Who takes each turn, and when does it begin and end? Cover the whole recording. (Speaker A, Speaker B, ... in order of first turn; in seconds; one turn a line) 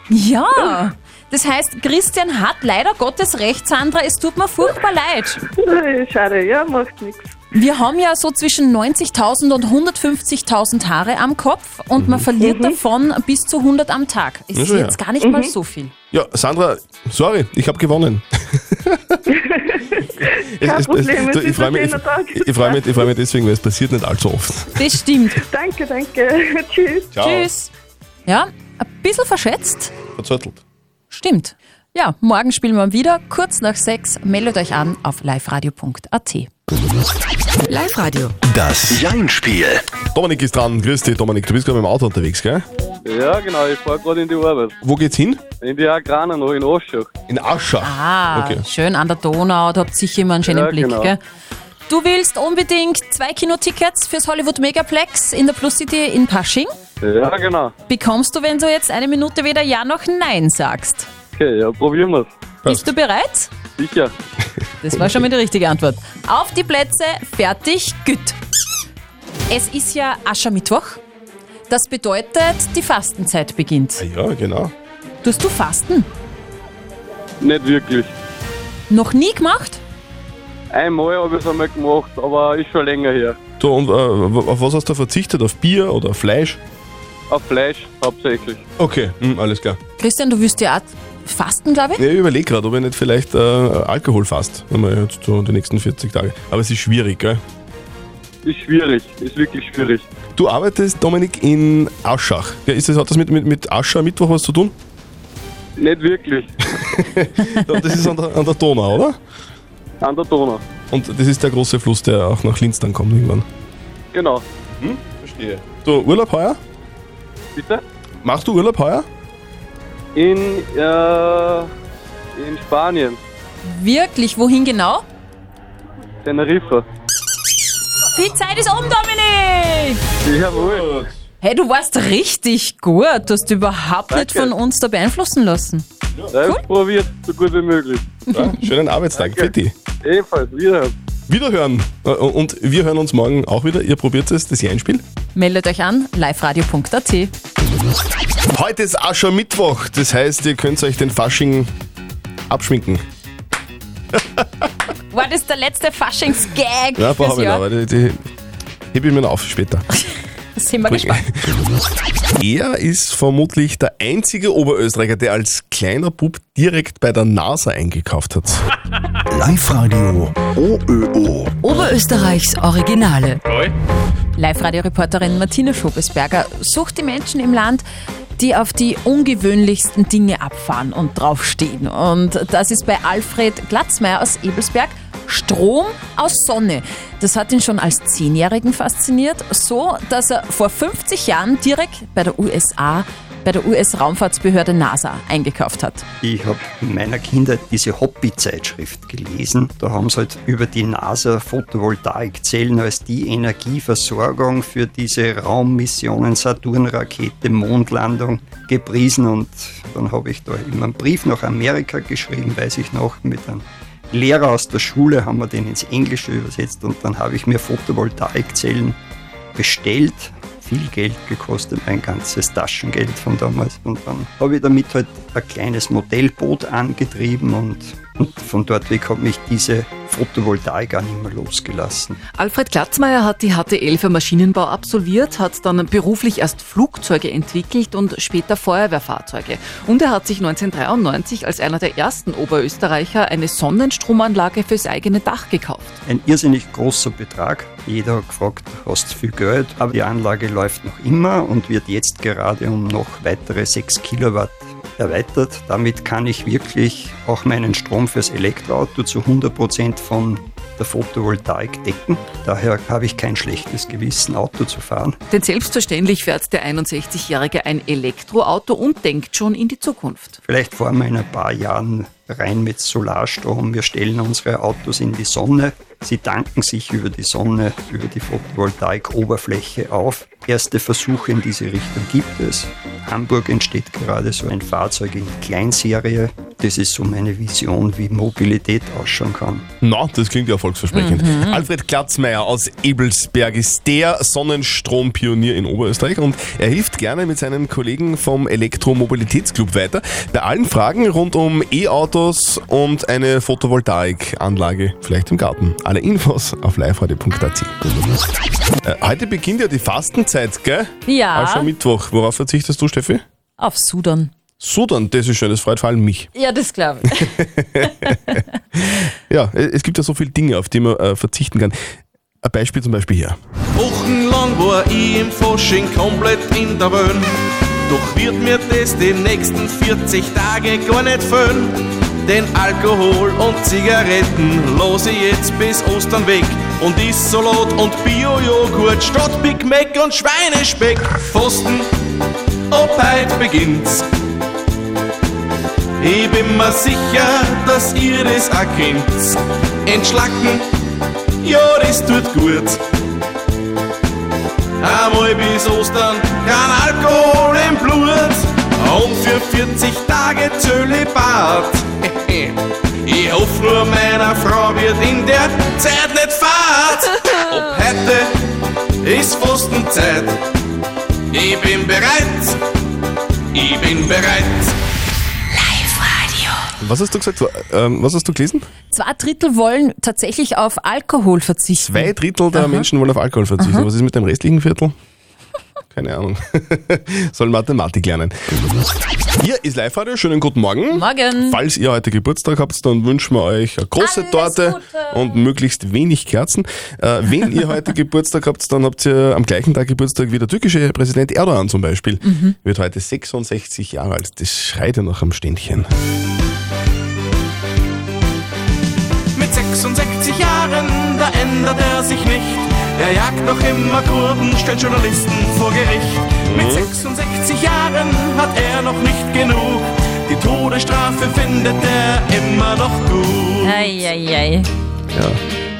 Speaker A: 0.1-5.4
Speaker B: 5.5-7.3
Speaker A: 7.5-15.9
Speaker C: 12.0-12.2
Speaker B: 12.4-12.8
Speaker C: 14.5-15.0
Speaker B: 15.2-15.5
Speaker C: 16.1-19.2
Speaker B: 19.3-23.0
Speaker C: 20.5-24.8
Speaker A: 24.7-25.4
Speaker B: 25.3-27.1
Speaker C: 27.1-27.5
Speaker A: 27.2-27.7
Speaker A: 28.2-29.9
Speaker C: 30.1-30.6
Speaker A: 31.1-36.5
Speaker D: 38.4-39.8
Speaker C: 40.1-42.6
Speaker E: 43.0-44.7
Speaker C: 44.8-45.4
Speaker E: 45.6-47.1
Speaker C: 47.3-48.6
Speaker A: 47.8-51.2
Speaker E: 50.5-51.1
Speaker A: 51.9-56.7
Speaker E: 57.0-57.7
Speaker A: 57.9-61.1
Speaker E: 61.4-62.3
Speaker A: 62.6-63.5
Speaker E: 63.8-64.1
Speaker A: 64.8-68.4
Speaker A: 69.5-71.0
Speaker A: 71.7-74.0
Speaker C: 74.0-74.7
Speaker A: 75.2-76.1
Speaker E: 77.4-78.1
Speaker A: 78.9-79.8
Speaker E: 80.7-83.3
Speaker C: 83.6-86.6
Speaker E: 87.3-88.6
Speaker C: 88.8-89.8
Speaker A: 90.0-92.0
Speaker C: 92.0-97.4
Speaker E: 98.4-100.0
Speaker C: 100.3-104.7
Speaker E: 105.8-106.5
Speaker C: 106.8-109.2
Speaker E: 110.0-110.6
Speaker C: 110.9-113.5
Speaker E: 114.1-114.4
Speaker C: 114.8-116.6
Speaker E: 117.5-117.8
Speaker C: 118.2-119.1
Speaker E: 120.2-121.7
Speaker E: 122.3-123.2
Speaker A: 123.6-125.0
Speaker E: 126.2-126.8
Speaker A: 128.1-130.0
Speaker E: 130.2-131.0
Speaker C: 130.7-131.1
Speaker A: 131.4-135.8
Speaker E: 134.1-134.5
Speaker E: 136.3-138.2
Speaker C: 138.3-139.7
Speaker E: 139.1-139.5
Speaker E: 140.0-140.9
Speaker C: 141.3-145.0
Speaker A: 145.3-147.3
Speaker C: 148.5-151.7
Speaker C: 152.5-153.0
Speaker C: 154.1-154.7
Speaker A: 155.1-157.6
Speaker C: 157.0-158.3
Speaker C: 158.9-159.8
Speaker A: 159.9-161.3
Speaker C: 160.9-161.5
Speaker C: 162.4-168.6
Speaker D: 169.3-171.6
Speaker F: 171.6-173.4
Speaker A: 174.3-177.8
Speaker A: 178.4-196.0
Speaker G: 196.2-219.0
Speaker G: 219.6-232.2
Speaker F: 232.4-246.0
Speaker G: 246.1-265.2
Speaker F: 265.3-270.4
Speaker G: 270.5-289.6
Speaker C: 289.8-307.7
Speaker A: 290.9-291.6
Speaker C: 308.8-313.2
Speaker A: 311.1-311.7
Speaker A: 313.6-314.3
Speaker C: 314.6-316.3
Speaker A: 316.3-318.4
Speaker C: 317.2-323.4
Speaker H: 323.8-327.3
Speaker H: 327.9-341.9
Speaker H: 342.7-344.1
Speaker H: 346.0-350.7
Speaker H: 351.4-352.8
Speaker H: 354.8-368.4
Speaker H: 369.0-370.4
Speaker H: 371.3-372.6
Speaker H: 373.5-374.7
Speaker A: 375.5-376.7
Speaker C: 376.8-378.6
Speaker A: 378.9-382.9
Speaker C: 381.8-384.9
Speaker A: 383.6-383.9
Speaker C: 385.9-388.5
Speaker C: 389.4-405.9
Speaker A: 390.9-391.6
Speaker A: 394.0-395.5
Speaker A: 402.2-402.6
Speaker H: 409.4-423.8
Speaker C: 416.5-416.9
Speaker A: 423.6-424.7
Speaker C: 425.1-425.4